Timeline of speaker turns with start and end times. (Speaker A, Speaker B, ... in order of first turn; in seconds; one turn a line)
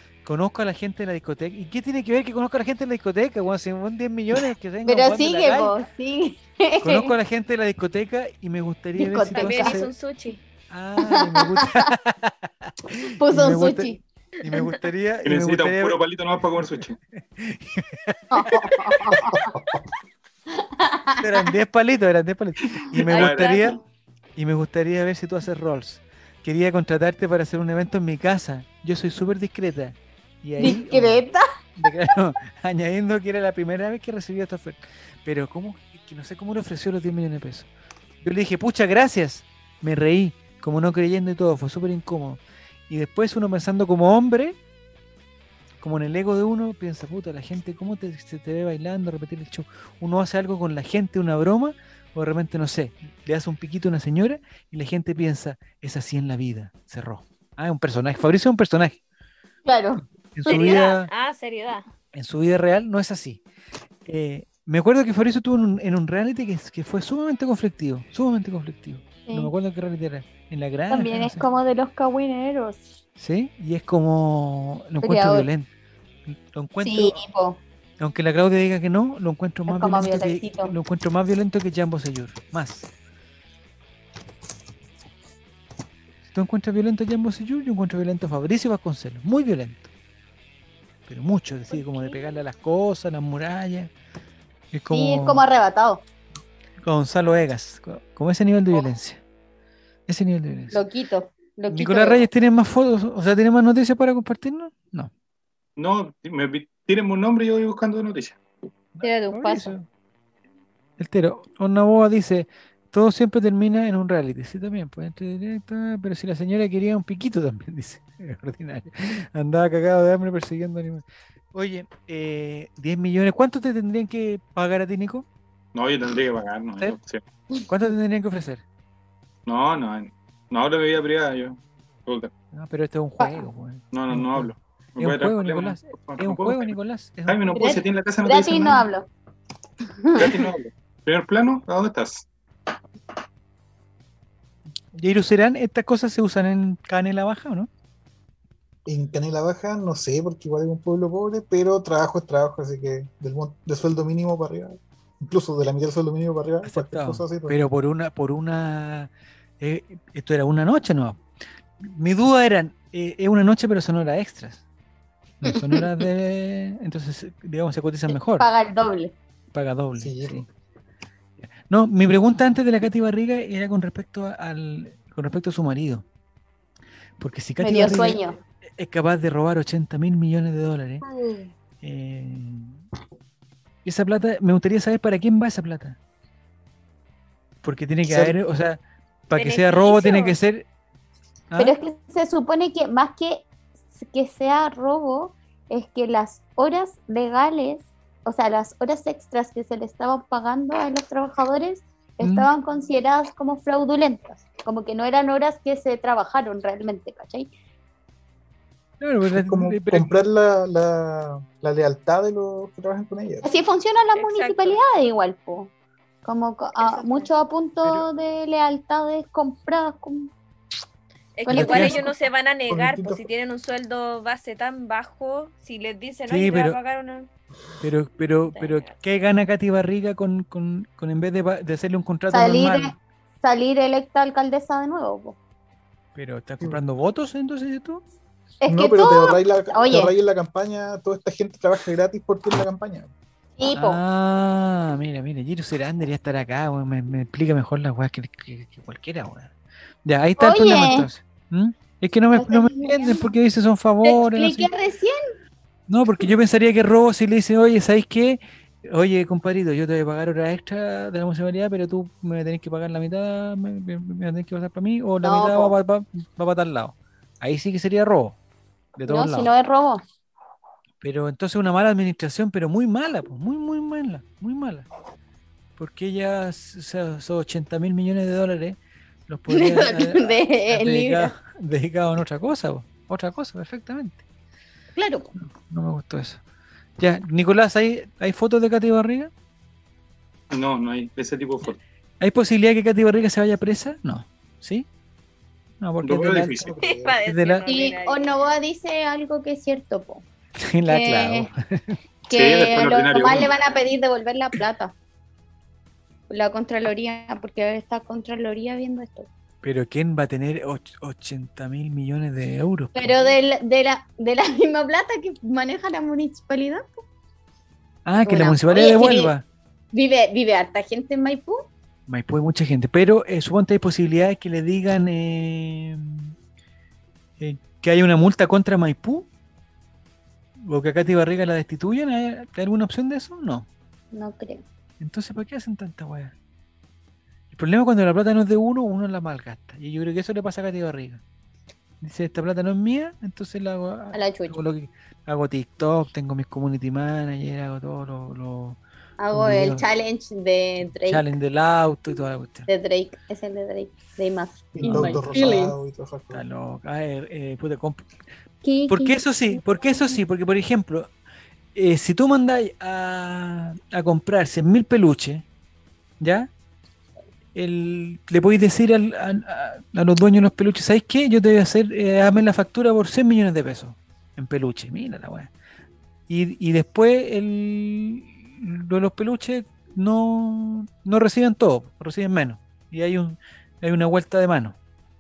Speaker A: 0.2-5.8
Speaker B: 4.9-7.1
Speaker A: 6.8-9.9
Speaker B: 9.0-9.8
Speaker C: 9.3-10.4
Speaker A: 10.7-16.0
Speaker B: 11.0-11.8
Speaker B: 13.2-14.0
Speaker D: 15.2-17.0
Speaker A: 17.2-19.2
Speaker B: 18.3-19.6
Speaker B: 20.5-21.3
Speaker A: 21.2-23.8
Speaker D: 22.9-23.8
Speaker C: 23.1-23.8
Speaker A: 24.4-31.2
Speaker B: 30.6-31.4
Speaker A: 31.8-37.7
Speaker A: 38.2-44.6
Speaker A: 45.8-59.0
Speaker B: 59.7-60.9
Speaker A: 60.2-61.1
Speaker C: 60.5-61.9
Speaker A: 62.1-63.4
Speaker A: 64.1-71.5
Speaker B: 70.9-72.9
Speaker A: 73.2-75.7
Speaker B: 75.0-75.5
Speaker A: 76.3-77.2
Speaker B: 76.8-77.6
Speaker A: 78.0-82.9
Speaker B: 79.7-80.7
Speaker A: 86.3-89.9
Speaker A: 91.1-93.9
Speaker C: 91.7-92.2
Speaker A: 94.7-95.4
Speaker B: 94.9-96.0
Speaker A: 96.8-99.2
Speaker A: 100.1-100.8
Speaker B: 100.7-102.3
Speaker A: 101.7-105.1
Speaker D: 105.8-108.4
Speaker A: 109.0-109.9
Speaker B: 109.0-109.8
Speaker A: 111.0-125.3
Speaker D: 125.7-127.2
Speaker A: 127.7-128.6
Speaker D: 129.5-132.3
Speaker A: 132.5-137.8
Speaker D: 133.9-136.8
Speaker D: 137.3-138.9
Speaker B: 137.6-139.1
Speaker B: 140.0-140.5
Speaker D: 140.2-142.3
Speaker A: 144.9-147.7
Speaker E: 148.9-157.6
Speaker A: 156.6-161.2
Speaker A: 161.8-164.6
Speaker A: 165.4-168.5
Speaker B: 165.5-165.8
Speaker B: 168.1-169.1
Speaker A: 169.5-170.5
Speaker E: 170.0-170.4
Speaker A: 171.4-176.1
Speaker A: 177.2-178.2
Speaker B: 177.6-178.4
Speaker A: 178.8-181.0
Speaker B: 181.0-181.5
Speaker A: 181.8-182.8
Speaker A: 183.8-186.0
Speaker A: 187.6-190.7
Speaker E: 188.1-188.4
Speaker C: 189.3-190.4
Speaker A: 191.5-191.8
Speaker B: 191.6-207.5
Speaker A: 202.2-202.5
Speaker A: 209.0-210.2
Speaker E: 209.3-213.5
Speaker B: 213.4-215.7
Speaker C: 214.2-214.8
Speaker B: 216.2-220.3
Speaker C: 216.8-217.3
Speaker C: 221.4-227.3
Speaker B: 221.5-222.1
Speaker A: 221.5-222.0
Speaker E: 222.7-223.3
Speaker A: 226.3-226.8
Speaker A: 227.8-232.9
Speaker C: 228.5-228.9
Speaker B: 232.3-235.4
Speaker A: 236.2-238.0
Speaker B: 238.6-240.1
Speaker E: 238.7-243.1
Speaker B: 243.6-244.0
Speaker A: 243.8-249.5
Speaker A: 250.1-254.7
Speaker B: 250.4-251.1
Speaker B: 252.3-253.3
Speaker B: 254.0-255.2
Speaker A: 255.9-268.4
Speaker B: 265.2-265.8
Speaker A: 269.0-269.5
Speaker B: 269.1-270.0
Speaker A: 271.0-274.9
Speaker A: 275.8-284.2
Speaker B: 279.5-281.3
Speaker B: 285.0-285.3
Speaker A: 285.4-286.4
Speaker A: 287.0-289.3
Speaker D: 290.5-291.8
Speaker A: 292.2-294.9
Speaker A: 295.8-296.7
Speaker D: 296.0-296.7
Speaker E: 296.6-297.2
Speaker C: 296.8-298.2
Speaker A: 297.2-297.7
Speaker B: 297.6-300.2
Speaker A: 300.6-302.0
Speaker B: 300.9-301.5
Speaker D: 302.3-303.5
Speaker B: 302.3-304.9
Speaker B: 306.3-309.3
Speaker A: 309.6-313.3
Speaker B: 312.9-317.0
Speaker A: 318.1-319.4
Speaker B: 318.2-319.3
Speaker B: 319.9-321.7
Speaker A: 322.1-326.3
Speaker A: 327.4-329.3
Speaker A: 330.6-333.7
Speaker B: 334.1-334.6
Speaker A: 335.0-336.3
Speaker A: 337.5-341.2
Speaker A: 342.0-348.8
Speaker B: 344.1-344.6
Speaker B: 349.2-351.2
Speaker A: 349.3-349.9
Speaker A: 350.8-352.7
Speaker B: 352.7-355.8
Speaker E: 354.7-356.4
Speaker A: 354.8-355.6
Speaker A: 356.3-358.1
Speaker B: 358.6-359.6
Speaker A: 358.9-361.1
Speaker A: 361.8-365.4
Speaker A: 366.2-366.5
Speaker A: 367.6-375.5
Speaker A: 376.3-384.8